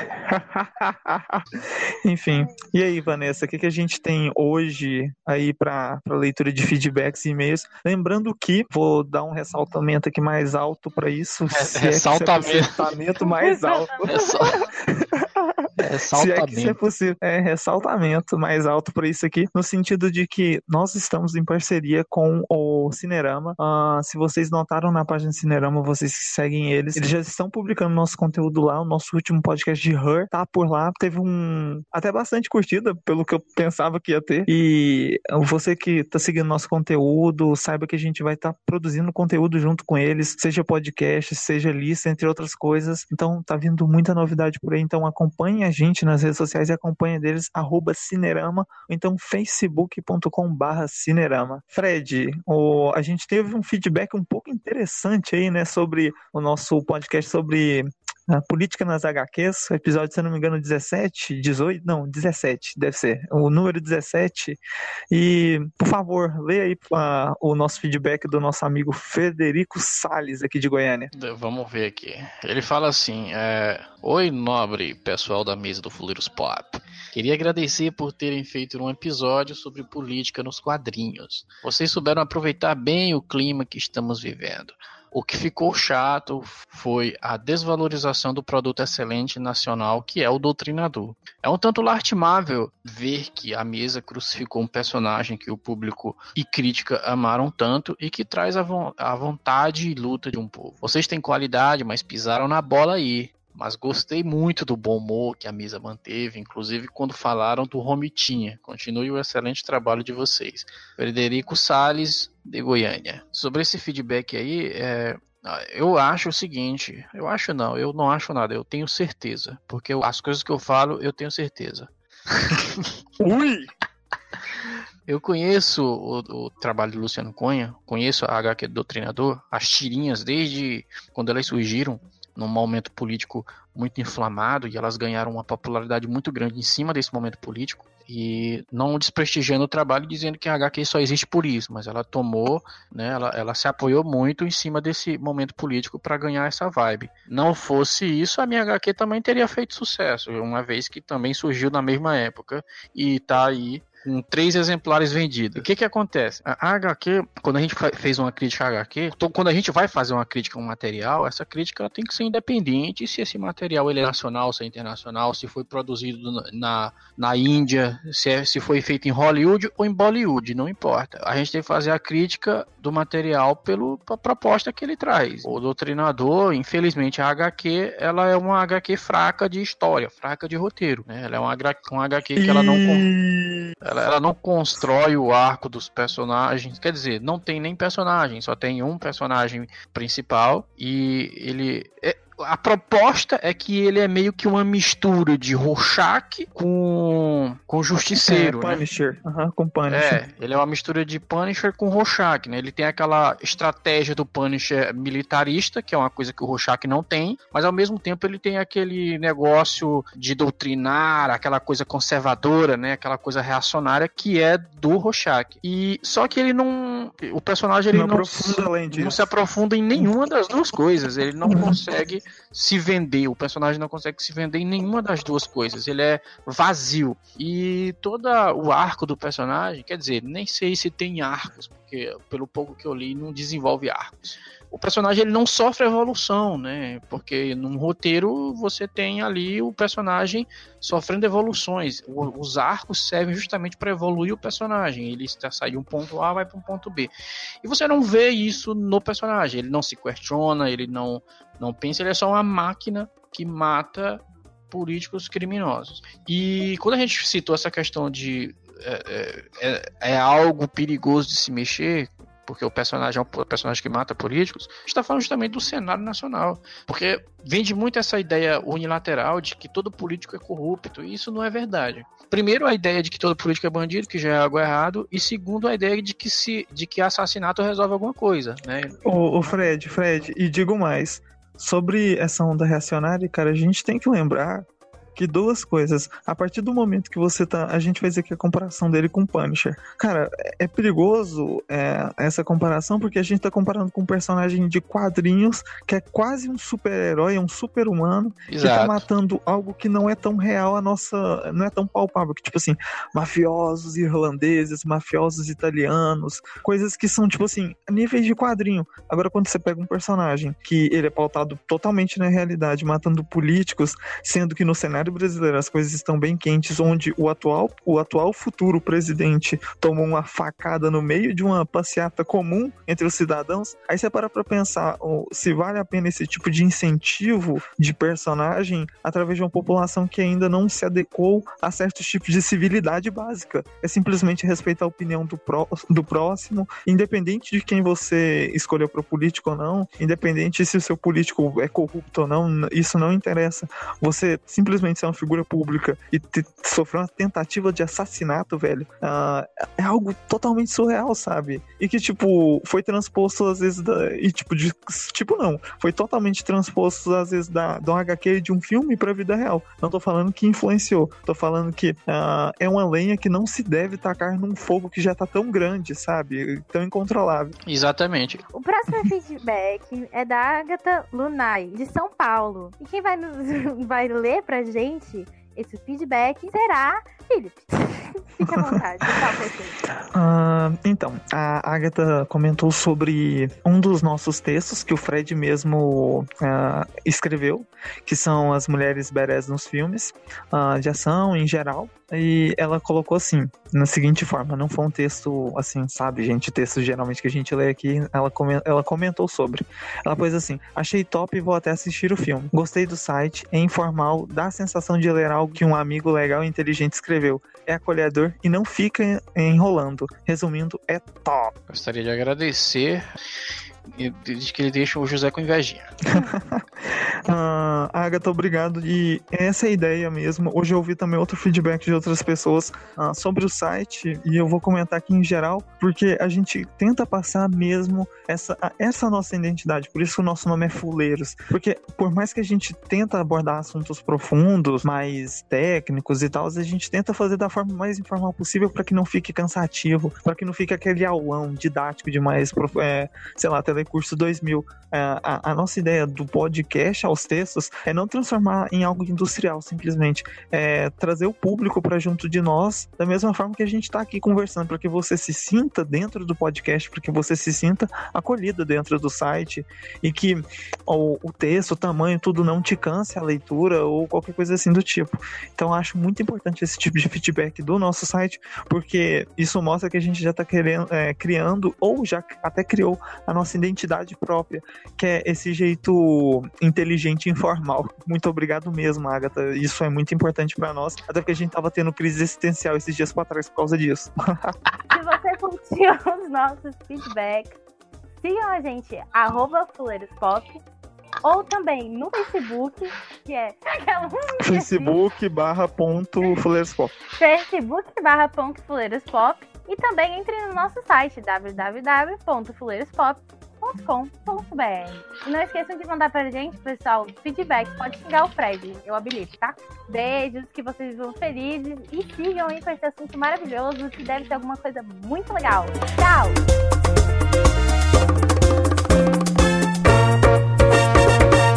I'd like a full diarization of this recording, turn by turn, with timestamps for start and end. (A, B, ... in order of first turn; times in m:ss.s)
0:00.2-0:15.5 A
0:11.5-0:14.6 B
0:15.8-0:16.8 B
0:16.1-1:04.6 A
1:05.1-1:11.1 A
1:11.1-2:01.9 B
2:03.2-2:03.7 A
2:05.1-3:03.1 B
3:02.3-3:03.7 A
3:03.8-3:18.8 B
3:18.0-3:20.2 A
3:19.9-4:07.1 B
3:37.9-3:39.3 A
3:41.4-3:41.8 A
4:07.6-4:39.0 B
4:39.0-6:07.5 A
4:58.5-4:59.0 B
6:07.7-6:08.4 B
6:08.5-6:19.8 C
6:20.1-6:51.5 A
6:51.7-6:53.0 B
6:53.9-6:55.9 B
6:56.1-8:04.5 A
8:04.9-8:07.5 C
8:08.2-8:10.6 C
8:11.2-8:15.0 C
8:14.4-8:17.0 A
8:17.2-8:36.4 C